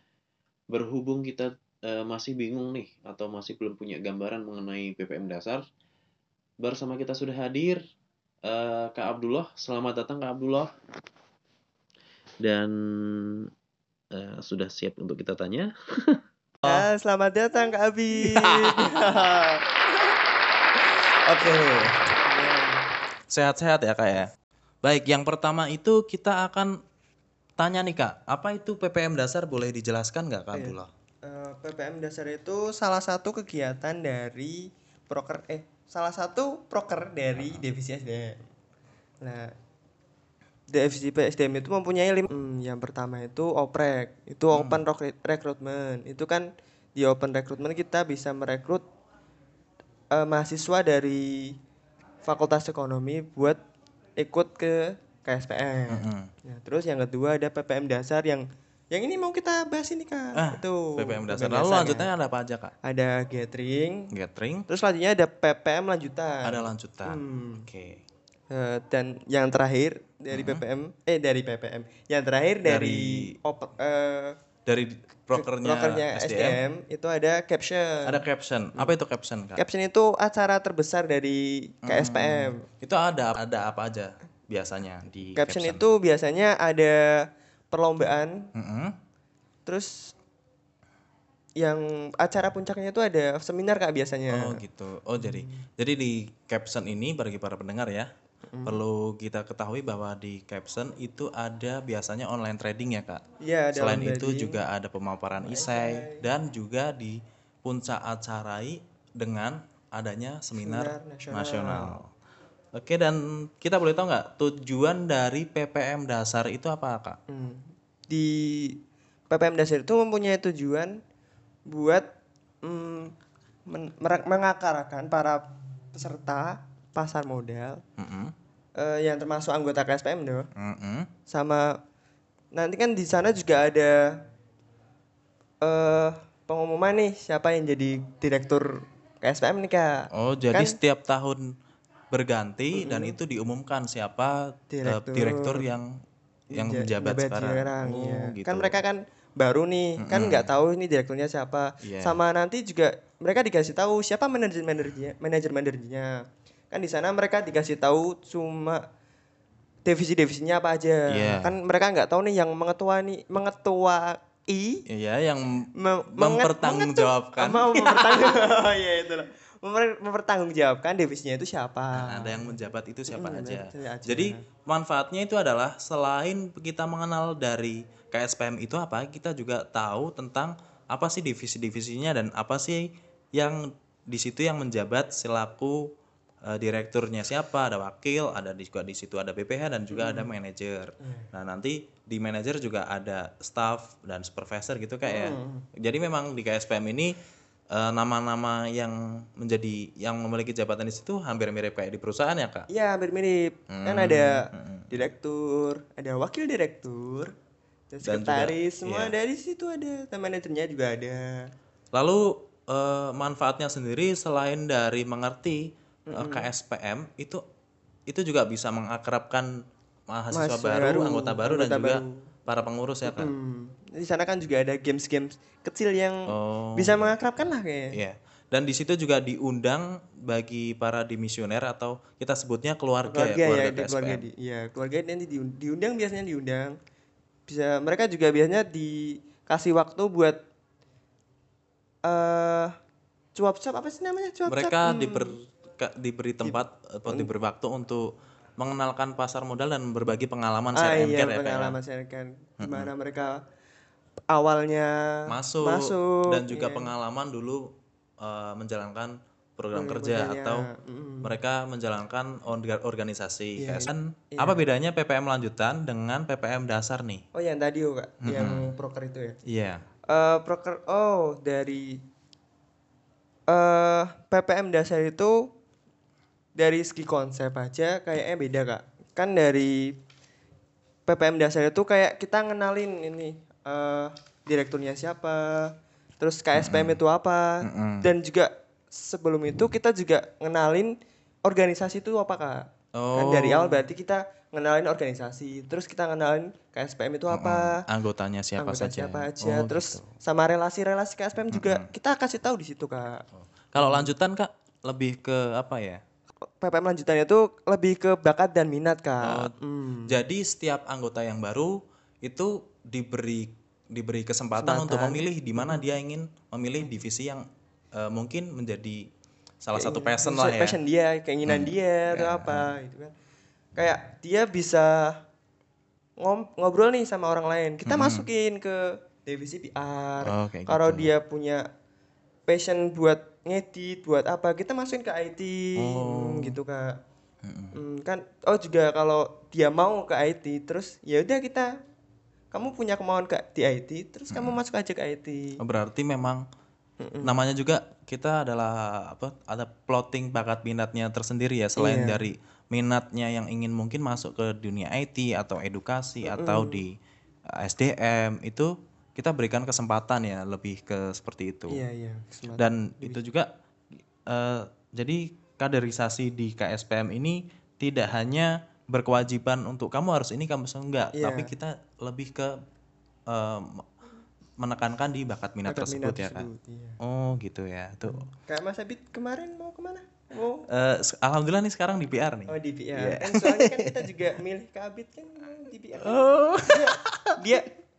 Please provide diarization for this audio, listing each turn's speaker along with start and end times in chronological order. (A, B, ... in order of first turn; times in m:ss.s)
0:00.7-0:05.6 A
0:06.6-0:07.8 A
0:08.5-0:10.7 A
0:12.4-0:13.4 A
0:14.2-0:16.2 A
0:16.6-0:19.6 B
0:18.4-0:18.8 C
0:20.9-0:22.8 B
0:23.3-0:24.3 C
0:24.8-0:26.7 C
0:27.6-0:30.9 C
0:30.5-0:38.4 B
0:37.3-0:37.6 C
0:39.2-0:39.5 B
0:40.7-0:48.8 B
0:44.5-0:44.8 C
0:50.1-0:51.5 B
0:52.2-0:53.6 B
0:54.2-1:02.1 B
0:55.9-0:56.3 C
1:00.3-1:02.7 C
1:02.8-1:04.1 B
1:04.1-1:04.6 C
1:04.7-1:07.7 B
1:06.4-1:08.0 C
1:08.5-1:14.4 B
1:10.3-1:10.6 C
1:12.6-1:13.3 C
1:14.6-1:16.6 C
1:15.3-1:18.2 B
1:18.0-1:19.6 C
1:19.6-1:22.6 B
1:21.8-1:25.8 C
1:25.3-1:27.2 B
1:27.7-1:28.4 B
1:28.5-1:28.9 C
1:29.6-1:30.1 B
1:31.6-1:34.6 B
1:34.3-1:38.1 C
1:35.2-1:35.6 B
1:38.5-1:38.8 B
1:38.6-1:43.2 C
1:43.4-1:44.6 B
1:43.7-1:52.1 C
1:45.4-1:46.3 B
1:50.6-1:52.0 B
1:52.8-1:57.2 C
1:57.3-1:58.7 B
1:59.3-2:01.0 B
2:01.7-2:02.0 B
2:02.6-2:03.1 B
2:03.7-2:07.8 B
2:08.0-2:08.3 C
2:08.8-2:10.5 B
2:10.6-2:11.1 C
2:11.3-2:11.7 B
2:12.5-2:14.2 B
2:15.6-2:20.8 B
2:20.1-2:21.4 C
2:22.1-2:25.9 C
2:22.7-2:23.2 B
2:24.7-2:25.6 B
2:26.5-2:36.1 B
2:26.5-2:28.8 C
2:30.0-2:30.5 C
2:31.8-2:32.2 C
2:36.7-2:38.8 B
2:39.8-2:44.8 B
2:41.1-2:41.6 C
2:44.9-2:48.3 C
2:45.8-2:52.6 B
2:51.9-3:05.8 C
2:53.1-2:54.4 B
3:06.5-3:17.1 C
3:09.9-3:10.3 B
3:11.0-3:11.3 B
3:15.0-3:15.6 B
3:17.7-3:22.6 C
3:22.7-3:27.3 B
3:23.7-3:24.9 C
3:27.9-3:31.5 B
3:28.0-3:29.1 C
3:31.9-3:37.4 C
3:36.1-3:36.5 B
3:38.1-3:39.5 C
3:40.1-3:43.3 C
3:40.3-3:42.3 B
3:43.0-3:46.2 B
3:46.3-3:47.2 C
3:46.7-3:47.9 B
3:47.9-3:54.2 C
3:53.1-3:56.7 B
3:57.5-4:00.4 B
4:02.0-4:02.7 B
4:03.3-4:05.4 B
4:04.5-4:08.0 C
4:07.1-4:07.3 B
4:08.6-4:11.8 C
4:10.7-4:13.4 B
4:12.6-4:12.9 C
4:14.3-4:14.9 B
4:15.3-4:17.7 C
4:15.6-4:16.9 B
4:18.2-4:20.7 C
4:19.7-4:21.3 B
4:21.2-4:27.2 C
4:23.6-4:24.6 B
4:27.3-4:29.4 B
4:28.2-4:28.7 C
4:29.4-4:29.8 C
4:30.1-4:32.0 B
4:33.5-4:35.5 B
4:36.6-4:39.9 B
4:41.1-4:50.9 B
4:46.5-4:47.0 C
4:47.6-4:48.1 C
4:51.4-4:57.8 B
4:52.9-4:53.8 C
4:57.3-5:00.1 C
4:58.6-5:03.2 B
5:01.5-5:01.9 C
5:03.3-5:06.0 C
5:03.8-5:04.1 B
5:06.6-5:10.1 B
5:09.2-5:09.5 C
5:10.1-5:17.4 C
5:14.6-5:15.8 B
5:17.9-5:19.0 C
5:19.6-5:20.8 C
5:19.7-5:23.1 B
5:21.4-5:22.7 C
5:23.8-5:25.2 B
5:26.2-5:31.6 B
5:27.8-5:28.2 C
5:30.2-5:31.1 C
5:32.5-5:37.0 B
5:35.8-5:36.6 C
5:37.4-5:37.8 C
5:37.7-5:41.7 B
5:42.5-5:45.5 B
5:44.3-5:44.6 C
5:45.6-5:46.4 C
5:47.0-5:47.4 B
5:47.2-5:56.9 C
5:51.8-5:52.2 B
5:56.2-5:56.8 B
5:57.6-6:01.8 C
6:01.7-6:03.2 B
6:02.6-6:03.4 C
6:04.3-6:12.5 C
6:11.1-6:11.5 B
6:13.3-6:13.8 C
6:14.6-6:16.5 C
6:15.6-6:17.0 B
6:17.0-6:18.3 C
6:18.1-6:20.6 B
6:20.7-6:24.1 C
6:22.5-6:27.7 B
6:26.0-6:27.3 C